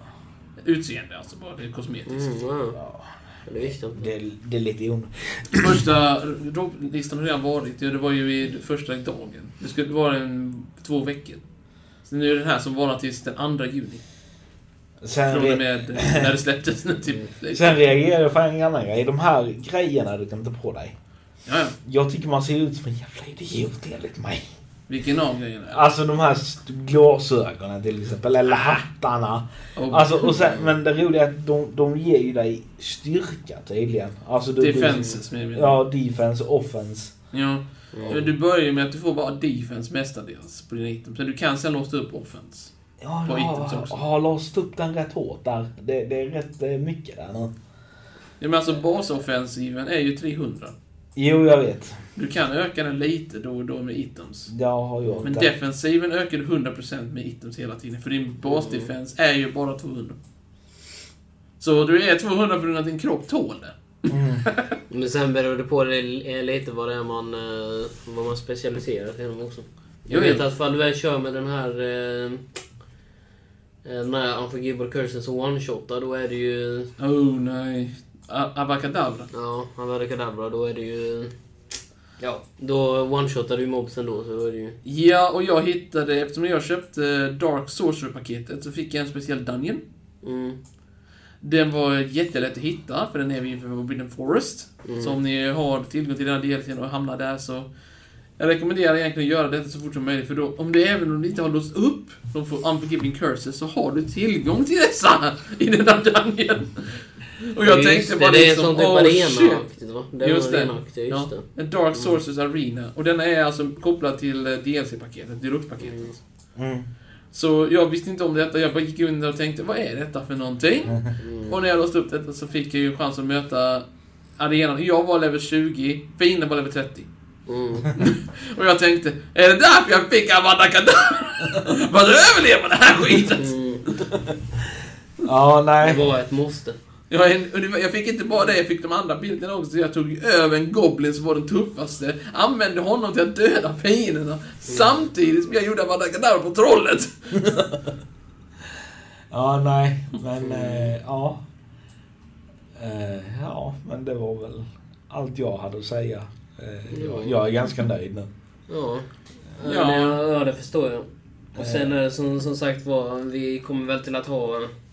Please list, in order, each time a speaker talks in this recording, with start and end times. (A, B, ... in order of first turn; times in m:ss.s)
0:00.6-0:02.3 A
0:02.1-0:02.8 B
0:02.8-0:05.8 C
0:03.5-0:04.1 B
0:05.5-0:11.4 A
0:12.0-0:14.0 A
0:15.0-0:16.3 C
0:15.3-0:17.8 A
0:17.5-0:21.0 C
0:21.5-0:21.8 A
0:21.8-0:24.4 C
0:24.9-0:25.8 A
0:25.7-0:37.1 C
0:29.8-0:30.4 A
0:34.6-0:35.8 A
0:34.9-0:35.2 B
0:37.3-0:42.7 A
0:37.9-0:38.3 B
0:43.0-0:47.5 C
0:43.2-0:44.0 A
0:48.4-0:50.7 A
0:51.2-0:52.0 C
0:52.2-0:54.5 A
0:54.5-0:55.5 C
0:55.0-0:55.3 B
0:55.2-1:00.2 A
0:58.4-0:58.9 B
1:01.6-1:04.8 A
1:04.1-1:04.4 C
1:04.9-1:12.5 B
1:10.1-1:10.4 A
1:13.8-1:16.9 B
1:17.0-1:19.3 A
1:19.3-1:21.3 B
1:22.2-1:24.8 B
1:24.8-1:29.8 A
1:30.2-1:30.6 B
1:31.4-1:37.7 A
1:34.8-1:35.2 B
1:38.4-1:49.7 A
1:47.6-1:52.2 B
1:50.2-1:56.2 A
1:55.8-1:56.2 B
1:56.6-1:56.9 C
1:57.3-2:03.8 A
2:01.2-2:01.6 B
2:04.4-2:07.1 A
2:07.5-2:07.9 B
2:08.0-2:14.3 A
2:13.4-2:13.9 B
2:15.2-2:16.1 C
2:15.8-2:16.8 B
2:17.1-2:27.4 A
2:24.7-2:25.1 B
2:27.4-2:27.9 C
2:29.3-2:31.4 C
2:30.4-2:31.0 B
2:32.8-2:38.3 C
2:36.9-2:37.4 B
2:38.7-2:44.7 B
2:39.6-2:40.2 A
2:41.6-2:41.9 C